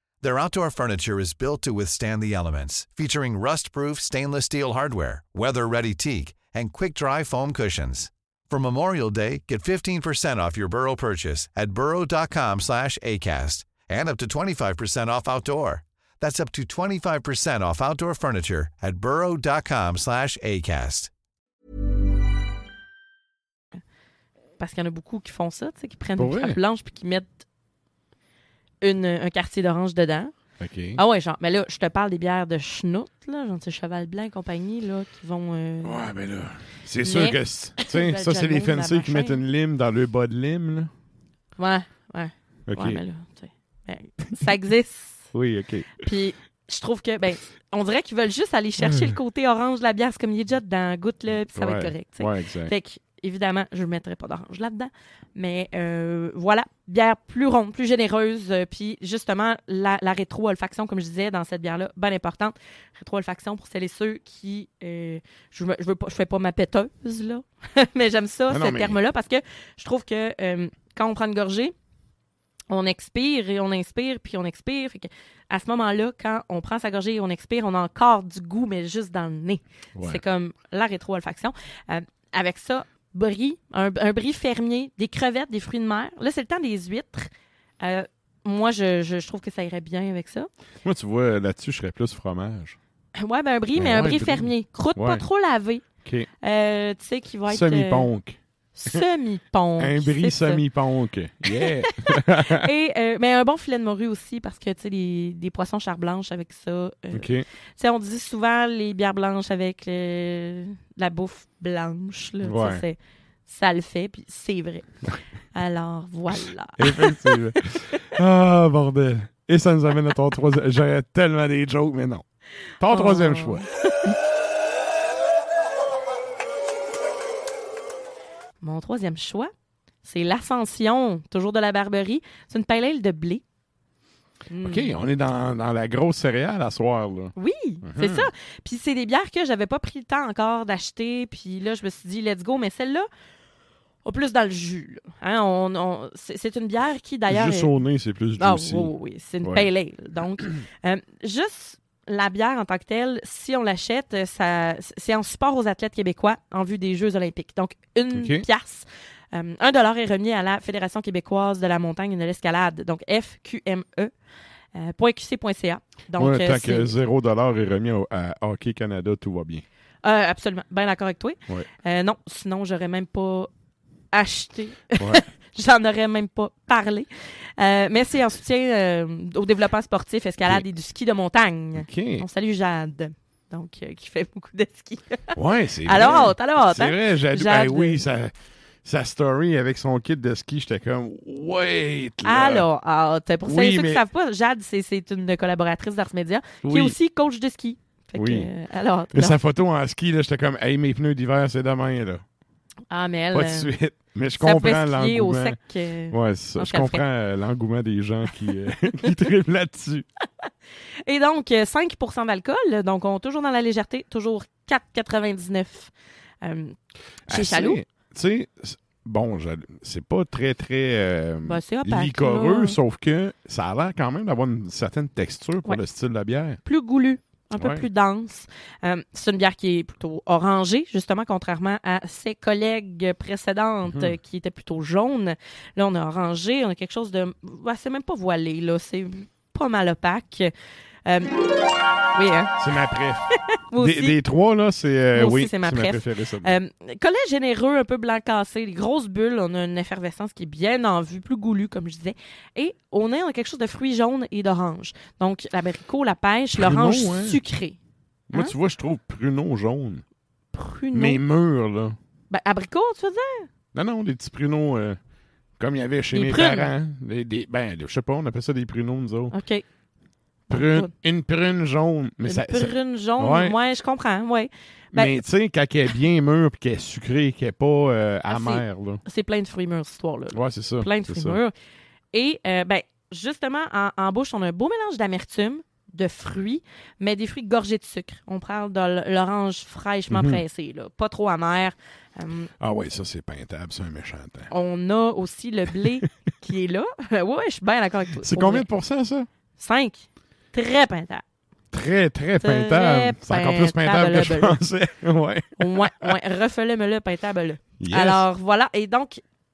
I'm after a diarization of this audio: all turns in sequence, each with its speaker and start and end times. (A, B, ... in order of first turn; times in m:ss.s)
0:00.2-0:21.1 A
0:24.6-0:27.4 B
0:26.2-0:26.6 C
0:28.8-0:30.3 B
0:30.6-0:31.0 C
0:31.0-0:36.1 B
0:35.8-0:40.9 C
0:37.0-0:39.4 B
0:41.6-0:45.3 B
0:42.7-0:43.0 C
0:45.3-0:46.0 C
0:46.0-1:11.7 B
0:48.8-0:49.2 C
0:51.6-0:52.7 C
1:08.5-1:09.0 C
1:12.7-1:27.3 B
1:20.0-1:20.2 C
1:27.8-1:30.5 B
1:30.8-1:32.8 C
1:33.2-1:35.8 B
1:33.8-1:35.2 C
1:36.4-1:38.1 B
1:37.5-1:39.0 C
1:38.8-1:40.6 B
1:39.8-1:42.7 C
1:41.5-1:54.9 B
1:47.1-1:47.4 C
1:52.4-1:52.8 C
1:55.5-1:57.6 B
1:56.8-2:02.2 C
2:02.8-2:03.7 C
2:02.9-2:04.1 B
2:08.6-2:09.5 B
2:10.0-2:13.4 B
2:14.5-2:14.9 B
2:14.6-2:18.3 C
2:17.4-2:23.1 B
2:24.0-2:27.7 B
2:27.3-2:28.9 C
2:28.4-2:44.1 B
2:38.2-2:38.5 C
2:44.8-2:46.9 B
2:46.2-2:49.6 C
2:50.0-2:53.5 B
2:54.1-3:08.0 B
2:55.0-2:55.2 C
3:01.8-3:02.3 C
3:05.4-3:08.3 C
3:08.8-3:12.7 C
3:12.2-3:19.4 B
3:13.4-3:14.0 C
3:16.6-3:17.0 C
3:18.2-3:18.5 C
3:19.1-3:22.2 C
3:22.9-3:23.7 B
3:23.3-3:25.6 C
3:24.4-3:27.0 B
3:26.1-3:30.1 C
3:31.0-3:36.8 B
3:37.3-3:37.8 B
3:37.3-3:46.6 C
3:41.5-3:42.8 B
3:46.6-4:00.5 B
3:47.6-3:47.8 C
3:53.9-3:54.2 C
4:01.1-4:01.4 B
4:02.1-4:02.6 B
4:02.6-4:06.6 C
4:03.7-4:04.2 B
4:05.1-4:17.8 B
4:16.6-4:17.4 C
4:18.3-4:20.0 C
4:20.5-4:21.2 B
4:20.9-4:22.0 C
4:22.3-4:23.5 B
4:23.7-4:25.0 C
4:25.6-4:29.4 C
4:26.1-4:26.7 B
4:29.3-4:29.6 B
4:30.5-4:30.9 B
4:30.5-4:33.6 C
4:32.3-4:35.2 B
4:34.9-4:39.0 C
4:38.3-4:41.5 B
4:40.3-4:41.4 C
4:42.1-4:52.5 B
4:50.1-4:50.4 C
4:52.6-4:54.5 C
4:54.5-4:58.7 B
4:58.2-4:59.3 C
4:59.6-5:01.2 B
5:01.7-5:06.2 C
5:02.4-5:04.6 B
5:05.6-5:09.2 B
5:07.8-5:08.3 C